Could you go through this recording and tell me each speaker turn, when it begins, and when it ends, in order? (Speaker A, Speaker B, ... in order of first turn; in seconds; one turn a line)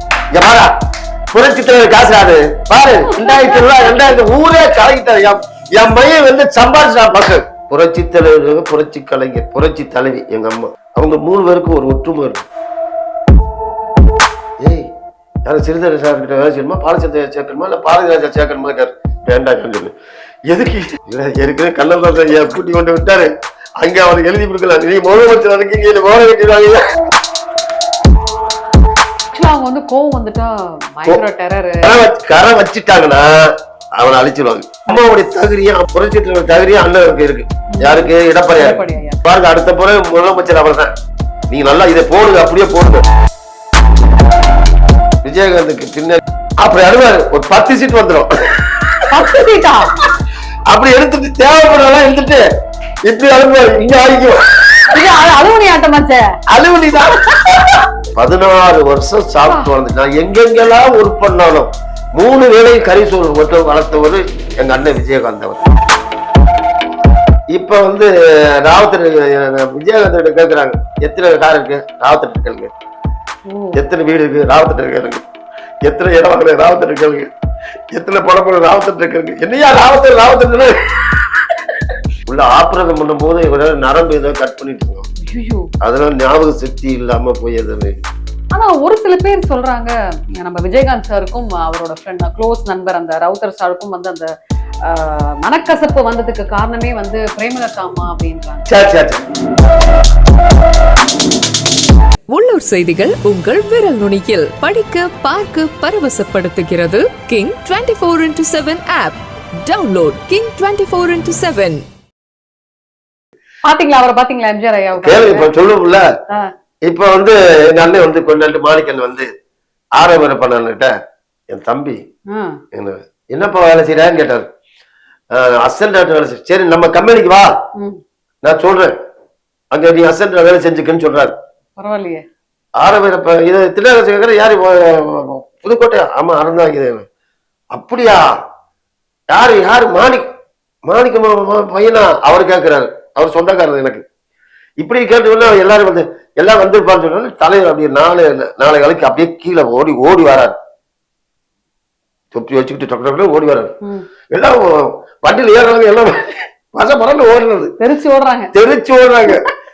Speaker A: 0.3-0.7
Speaker A: 1.3-12.5
Speaker B: 3.0-4.2
Speaker A: 14.6-14.9
Speaker A: 15.4-19.9
Speaker A: 20.5-26.9
Speaker B: 29.3-31.9
Speaker A: 31.8-40.9
Speaker B: 37.7-39.2
Speaker A: 41.5-43.0
Speaker A: 45.2-49.0
Speaker B: 49.1-49.9
Speaker A: 50.7-52.4
Speaker A: 53.1-54.9
Speaker B: 54.9-56.3
Speaker A: 56.5-57.2
Speaker A: 58.1-65.7
Speaker B: 59.4-59.7
Speaker A: 67.5-68.1
Speaker A: 68.6-72.7
Speaker B: 73.5-73.8
Speaker A: 73.8-75.2
Speaker A: 75.8-77.3
Speaker A: 77.9-81.4
Speaker A: 82.3-85.0
Speaker B: 85.2-85.7
Speaker A: 85.8-88.0
Speaker B: 88.5-94.3
Speaker B: 94.8-98.7
Speaker A: 98.7-99.2
Speaker C: 102.3-111.8
Speaker B: 113.6-115.5
Speaker A: 115.0-116.0
Speaker A: 116.8-119.3
Speaker A: 120.0-120.9
Speaker A: 121.5-122.0
Speaker B: 122.3-122.6
Speaker A: 122.7-124.5
Speaker A: 125.3-127.5
Speaker A: 128.4-128.9
Speaker A: 129.7-131.4
Speaker B: 131.8-132.2
Speaker A: 132.8-137.1
Speaker A: 137.7-138.2
Speaker A: 139.3-140.2
Speaker A: 140.9-144.0
Speaker A: 144.8-150.6
Speaker A: 152.3-153.7
Speaker A: 154.3-157.7
Speaker B: 157.8-158.5
Speaker A: 158.5-159.4